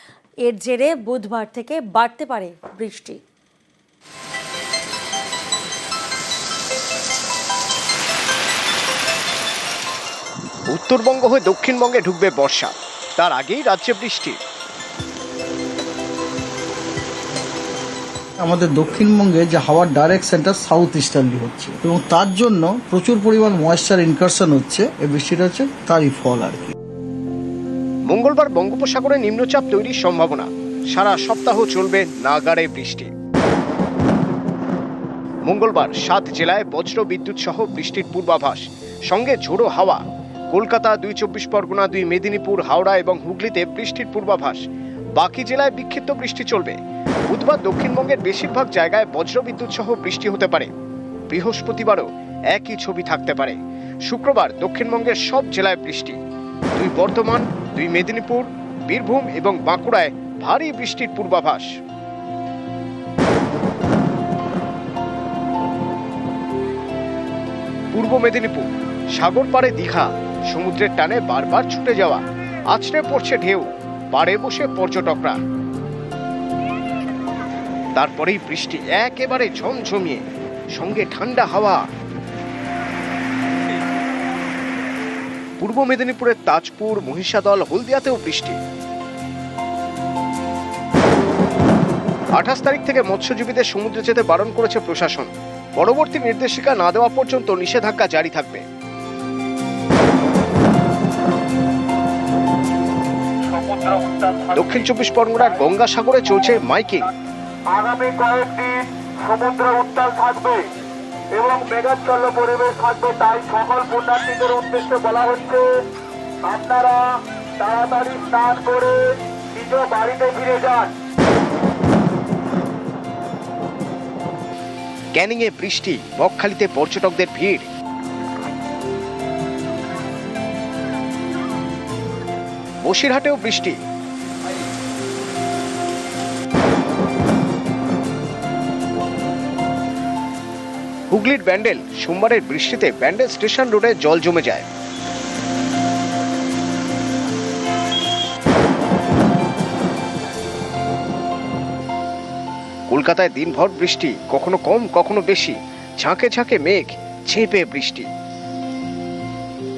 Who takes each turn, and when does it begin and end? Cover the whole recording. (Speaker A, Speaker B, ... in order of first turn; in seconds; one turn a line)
Speaker A: 0.5-3.2
Speaker B: 10.7-14.4
Speaker C: 18.4-26.8
Speaker B: 28.1-33.1
Speaker B: 35.5-44.6
Speaker B: 45.2-46.8
Speaker B: 47.3-50.7
Speaker B: 51.3-56.2
Speaker B: 56.8-61.7
Speaker B: 67.9-75.4
Speaker B: 78.0-80.2
Speaker B: 80.8-81.8
Speaker B: 85.6-88.6
Speaker B: 92.3-98.6
Speaker D: 103.5-104.8
Speaker B: 104.5-107.1
Speaker D: 107.7-110.7
Speaker D: 111.3-115.8
Speaker D: 116.4-121.0
Speaker B: 125.1-127.7
Speaker B: 132.8-133.8
Speaker B: 141.1-144.7
Speaker B: 152.9-158.1